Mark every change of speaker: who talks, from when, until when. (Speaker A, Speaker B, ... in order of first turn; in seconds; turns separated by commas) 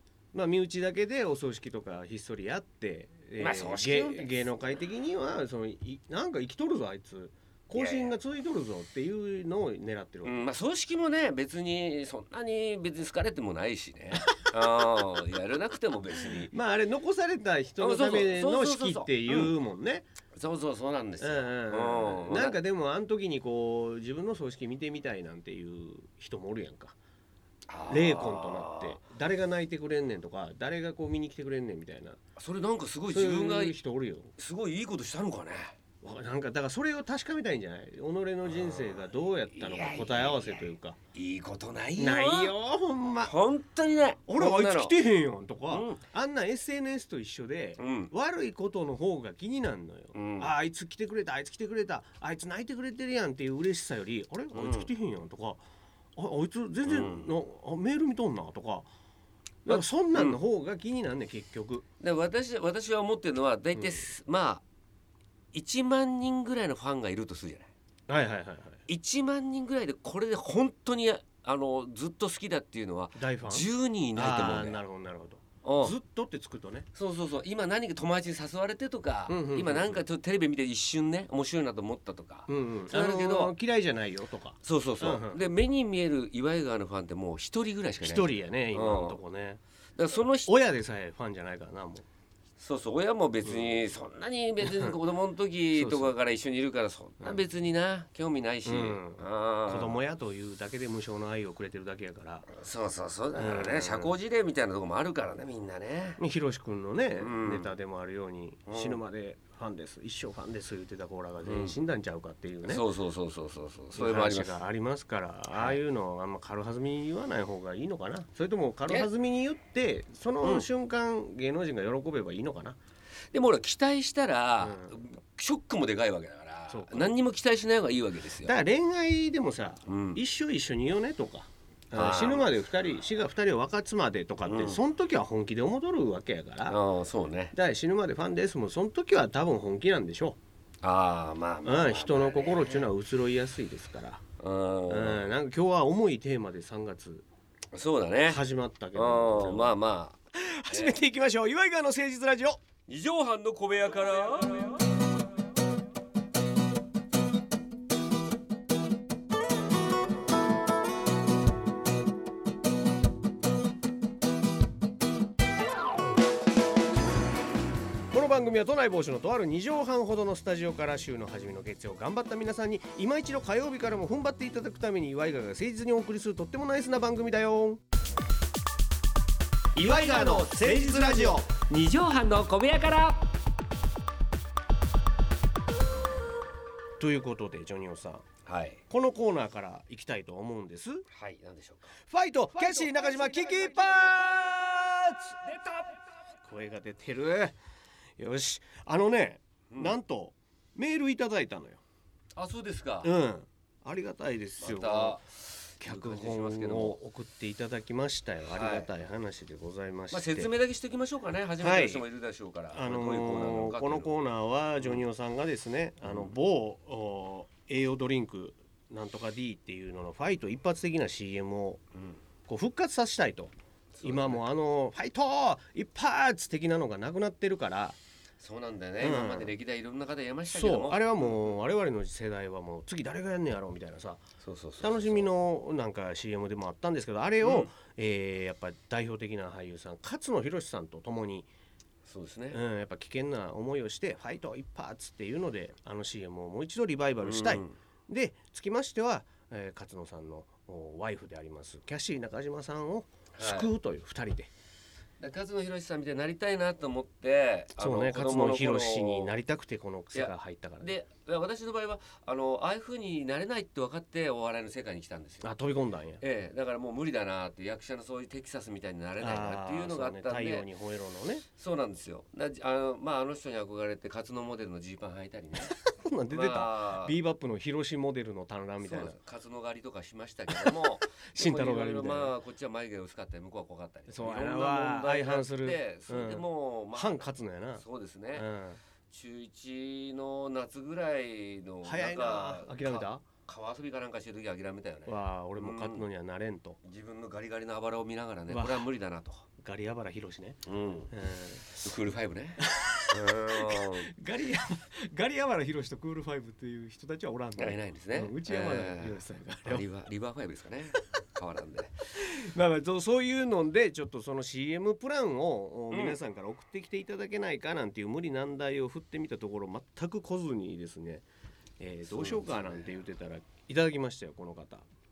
Speaker A: 0.3-10.4, Speaker B: 3.4-4.5, Speaker B: 7.7-8.1, Speaker B: 10.2-16.5, Speaker A: 14.3-15.0, Speaker A: 16.2-20.1, Speaker B: 17.8-19.6, Speaker B: 20.4-22.6, Speaker A: 21.2-27.0, Speaker B: 27.7-29.0, Speaker A: 27.9-32.2, Speaker B: 32.4-33.8, Speaker A: 33.1-34.3, Speaker B: 34.4-35.8, Speaker A: 36.0-41.0, Speaker B: 38.4-42.6, Speaker A: 42.0-43.3, Speaker B: 43.2-45.0, Speaker A: 44.3-55.6, Speaker B: 45.7-46.0, Speaker B: 47.8-48.1, Speaker B: 50.1-50.5, Speaker B: 54.5-54.9, Speaker A: 56.2-58.9, Speaker B: 56.9-57.3, Speaker B: 59.6-60.4, Speaker A: 59.6-61.9, Speaker B: 62.0-64.6, Speaker A: 63.8-64.1, Speaker B: 65.5-67.7, Speaker A: 68.1-68.8, Speaker B: 68.9-74.8, Speaker A: 73.2-76.9, Speaker B: 75.6-76.0, Speaker B: 76.9-83.5, Speaker A: 79.3-80.0, Speaker A: 82.5-85.5, Speaker B: 84.6-89.2, Speaker A: 88.0-89.6, Speaker B: 90.0-90.5, Speaker A: 90.5-92.0, Speaker B: 92.6-100.0, Speaker A: 93.5-93.8, Speaker A: 94.6-95.0, Speaker A: 95.7-96.1, Speaker A: 98.7-102.5, Speaker B: 102.5-106.2, Speaker A: 103.4-104.2, Speaker A: 106.2-112.8, Speaker B: 107.2-107.7, Speaker B: 108.7-109.0, Speaker B: 111.4-111.8, Speaker B: 112.7-114.6, Speaker A: 113.9-122.8, Speaker B: 115.5-115.8, Speaker B: 120.4-120.7, Speaker B: 123.3-128.5, Speaker A: 124.6-125.0, Speaker A: 126.7-127.2, Speaker A: 128.4-136.8, Speaker B: 129.9-130.2, Speaker B: 131.9-132.5, Speaker B: 134.4-134.8, Speaker B: 136.7-137.6, Speaker A: 137.5-140.4, Speaker B: 140.8-142.9, Speaker A: 141.6-144.2, Speaker B: 144.4-145.3, Speaker A: 144.9-147.3, Speaker B: 147.7-148.4, Speaker A: 148.2-149.8, Speaker B: 148.9-151.0, Speaker A: 150.3-152.6, Speaker B: 152.9-154.9, Speaker A: 168.1-177.8, Speaker B: 179.8-183.3, Speaker A: 179.8-181.4, Speaker A: 187.0-188.2, Speaker B: 188.4-188.8, Speaker A: 188.9-191.1, Speaker B: 191.1-191.9, Speaker A: 192.1-195.4, Speaker B: 192.6-193.3, Speaker A: 196.4-197.6, Speaker A: 198.2-201.8, Speaker B: 199.7-200.0, Speaker B: 202.4-203.1, Speaker A: 203.0-205.2, Speaker B: 204.6-207.0, Speaker A: 205.8-210.5, Speaker B: 208.5-208.9, Speaker B: 210.1-214.1, Speaker A: 211.6-212.0, Speaker A: 212.7-221.8, Speaker B: 214.8-215.0, Speaker B: 216.0-216.3, Speaker A: 222.5-228.0, Speaker B: 223.9-224.4, Speaker B: 228.4-231.5, Speaker A: 229.0-229.6, Speaker A: 230.5-234.2, Speaker B: 234.4-235.3, Speaker A: 234.8-241.5, Speaker B: 237.4-237.7, Speaker B: 242.1-242.6, Speaker A: 242.5-254.5, Speaker B: 247.2-247.8, Speaker B: 253.3-253.7, Speaker B: 255.2-259.4, Speaker A: 257.8-260.9, Speaker B: 260.1-265.5, Speaker A: 265.4-266.2, Speaker B: 266.2-270.7, Speaker A: 269.2-271.4, Speaker B: 271.6-275.8, Speaker A: 275.6-279.2, Speaker B: 276.3-277.2, Speaker B: 278.8-287.3, Speaker A: 280.5-282.3, Speaker A: 284.1-288.8, Speaker B: 287.8-288.5, Speaker B: 289.1-296.1, Speaker A: 291.8-293.2, Speaker A: 295.1-296.8, Speaker B: 296.8-299.4, Speaker A: 298.5-298.9, Speaker A: 299.6-300.6, Speaker B: 300.7-301.1, Speaker A: 301.1-302.0, Speaker B: 301.8-304.1, Speaker A: 302.6-309.9, Speaker B: 307.6-312.0, Speaker A: 312.1-321.2, Speaker B: 315.9-316.2, Speaker A: 321.8-324.9, Speaker B: 322.1-322.8